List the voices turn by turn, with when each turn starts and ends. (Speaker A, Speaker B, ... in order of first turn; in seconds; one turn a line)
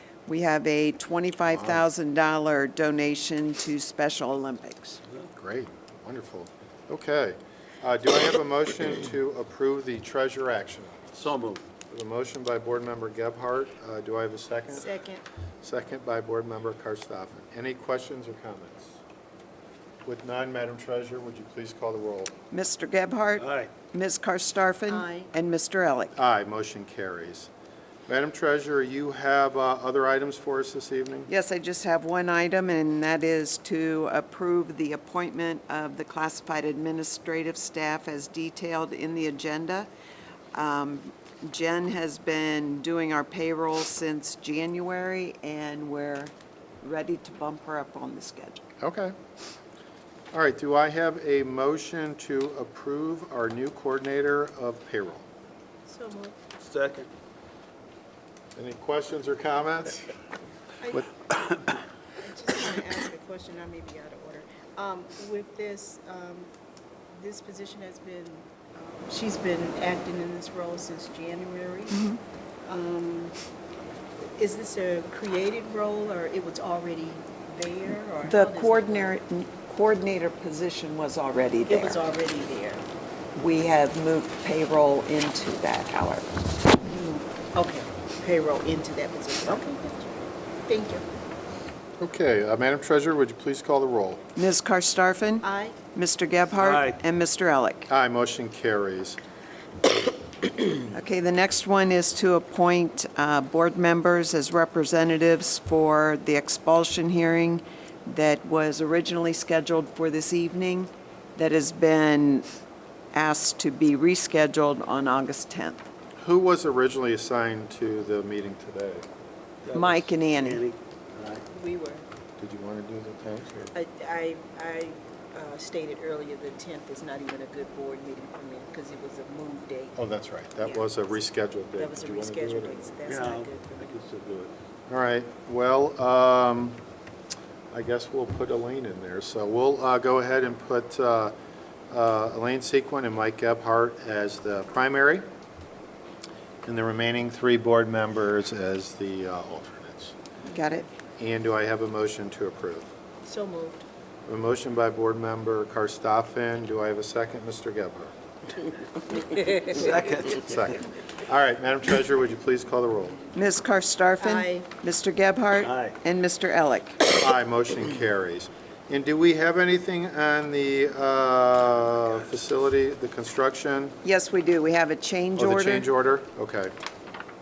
Speaker A: 0.3-5.0
Speaker B: 1.5-1.8
Speaker B: 5.3-11.1
Speaker C: 11.1-11.6
Speaker B: 11.9-14.9
Speaker D: 14.7-15.2
Speaker B: 15.6-19.0
Speaker B: 20.0-22.3
Speaker A: 22.5-26.1
Speaker C: 23.4-23.7
Speaker D: 24.9-25.3
Speaker B: 26.1-27.5
Speaker B: 28.1-31.3
Speaker A: 31.3-39.9
Speaker A: 40.5-48.6
Speaker B: 48.8-49.1
Speaker B: 50.3-55.2
Speaker D: 55.9-56.4
Speaker C: 56.6-57.1
Speaker B: 58.5-60.0
Speaker D: 60.8-61.1
Speaker D: 62.2-66.5
Speaker D: 67.1-72.0
Speaker D: 72.7-73.3
Speaker D: 74.3-79.2
Speaker A: 78.2-82.0
Speaker D: 81.7-82.8
Speaker A: 83.3-86.2
Speaker D: 86.8-91.0
Speaker B: 92.0-94.2
Speaker A: 94.3-97.9
Speaker D: 95.4-95.8
Speaker C: 96.5-97.0
Speaker B: 97.9-99.2
Speaker A: 100.9-112.5
Speaker A: 113.1-115.8
Speaker B: 116.2-119.0
Speaker C: 119.6-121.4
Speaker A: 119.7-120.6
Speaker D: 121.5-122.0
Speaker B: 122.4-123.7
Speaker D: 123.7-129.9
Speaker B: 129.9-132.9
Speaker D: 130.6-130.9
Speaker D: 131.8-133.9
Speaker C: 133.1-134.5
Speaker B: 134.9-136.8
Speaker B: 137.7-141.3
Speaker B: 141.9-145.2
Speaker B: 146.7-150.1
Speaker A: 150.5-150.8
Speaker B: 151.2-152.9
Speaker D: 153.2-153.8
Speaker B: 154.2-158.1
Speaker C: 159.4-160.5
Speaker B: 160.4-163.2
Speaker A: 163.3-167.0
Speaker D: 164.2-164.7
Speaker C: 165.6-165.9
Speaker B: 167.1-173.9
Speaker A: 174.0-175.9
Speaker B: 175.4-176.7